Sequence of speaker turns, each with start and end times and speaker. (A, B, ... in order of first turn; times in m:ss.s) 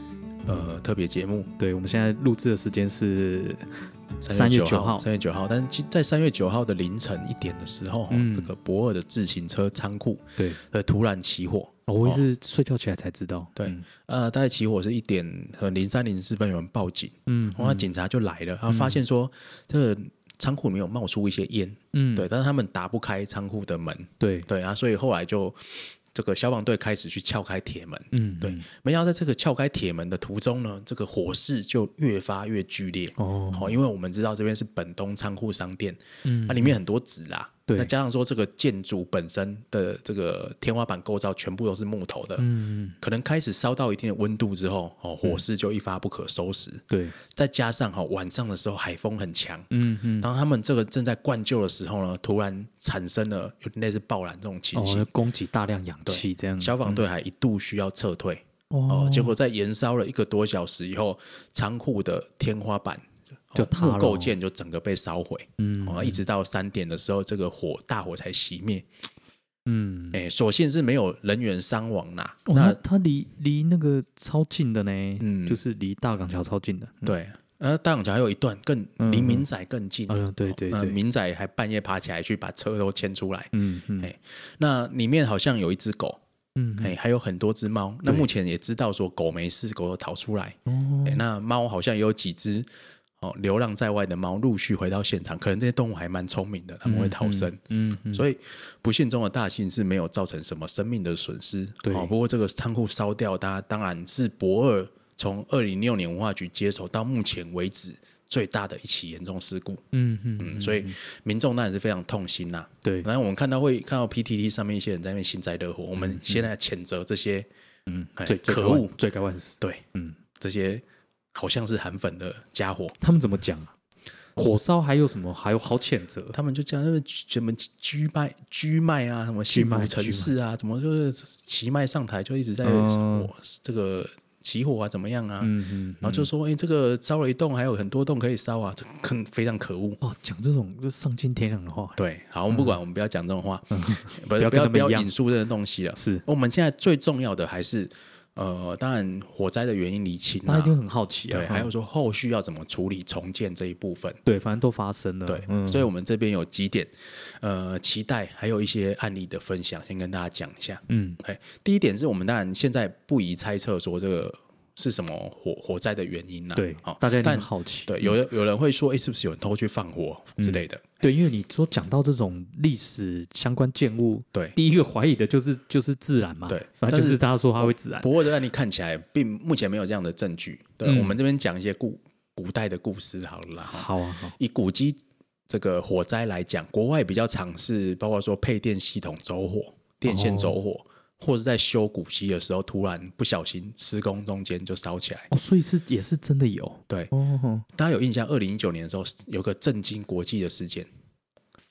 0:00.5-0:01.5 A
0:01.6-0:03.7 B
0:04.2-0:12.2 A
0:04.3-0:05.0 B
0:08.1-0:08.5 B
0:11.9-0:13.8 B
0:13.6-0:42.4 A
0:17.3-0:17.9 B
0:18.7-0:19.0 B
0:21.9-0:22.3 B
0:24.2-0:24.5 B
0:28.1-0:28.6 B
0:33.2-0:33.7 B
0:36.2-0:36.8 B
0:42.4-0:43.0 B
0:43.0-0:49.7 A
0:46.9-0:47.2 B
0:49.7-0:50.3 B
0:50.2-0:55.1 A
0:54.7-0:57.0 B
0:56.0-1:08.9 A
0:58.7-0:59.4 B
1:03.6-1:04.4 B
1:05.6-1:06.2 B
1:09.7-1:10.2 B
1:10.1-1:12.8 A
1:12.5-1:17.1 B
1:15.2-1:15.6 A
1:17.0-1:26.2 A
1:19.0-1:19.4 B
1:20.1-1:21.0 B
1:23.5-1:24.1 B
1:26.6-1:26.9 B
1:26.8-1:32.7 A
1:30.7-1:31.2 B
1:33.2-1:37.6 A
1:36.8-1:38.2 B
1:38.1-1:49.8 A
1:41.8-1:42.1 B
1:49.9-1:50.9 B
1:50.4-1:57.5 A
1:56.0-1:56.4 B
1:57.9-2:00.2 B
1:58.2-1:58.9 A
1:59.6-1:59.8 A
2:00.4-2:03.0 A
2:03.0-2:03.7 B
2:04.4-2:06.4 B
2:06.3-2:20.0 A
2:09.5-2:10.3 B
2:12.6-2:13.3 B
2:15.4-2:16.3 B
2:20.0-2:22.0 B
2:22.0-2:30.8 A
2:22.5-2:22.8 B
2:23.7-2:25.1 B
2:26.0-2:26.2 B
2:30.5-2:31.7 B
2:31.3-2:34.2 A
2:34.2-2:35.9 B
2:35.3-2:51.1 A
2:40.9-2:41.2 B
2:46.6-2:48.2 B
2:50.4-2:58.1 B
2:56.5-3:15.3 A
3:00.8-3:01.2 B
3:03.6-3:04.4 B
3:10.1-3:10.6 B
3:15.3-3:17.7 B
3:17.7-3:20.9 A